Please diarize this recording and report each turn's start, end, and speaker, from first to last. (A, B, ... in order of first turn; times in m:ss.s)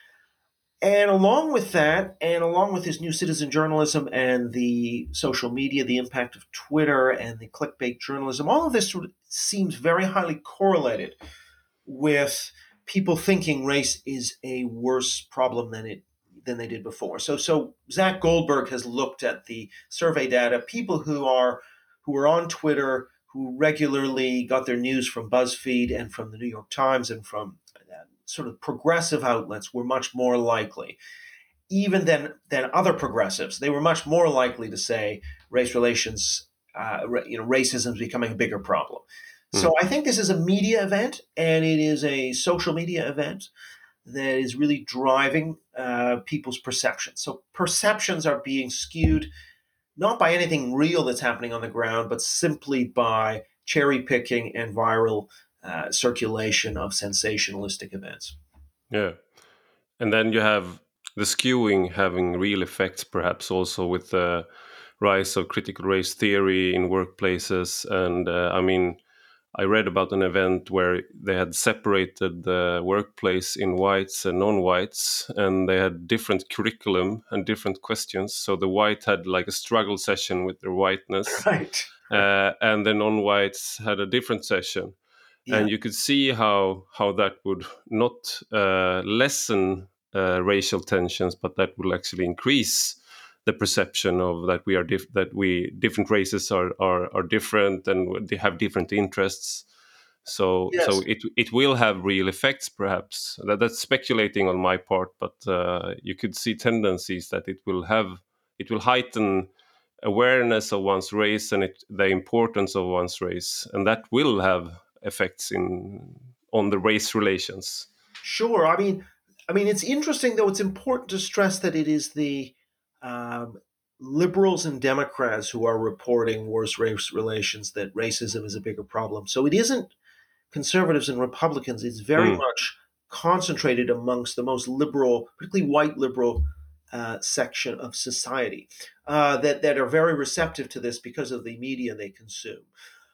0:00.8-0:11.2 A
0:11.8-0:27.6 A
0:28.2-0:31.0 A
0:31.7-0:43.5 A
0:44.0-0:49.3 A
0:50.0-0:58.4 A
0:58.9-0:59.2 B
1:00.0-1:04.5 B
1:05.0-1:09.0 B
1:09.5-1:21.4 B
1:21.3-1:22.2 A
1:22.1-1:25.0 B
1:25.5-1:39.6 B
1:40.2-1:49.5 B
1:40.7-1:41.0 A
1:50.0-1:57.9 B
1:58.2-2:09.9 A
2:10.5-2:22.7 A
2:12.2-2:12.4 B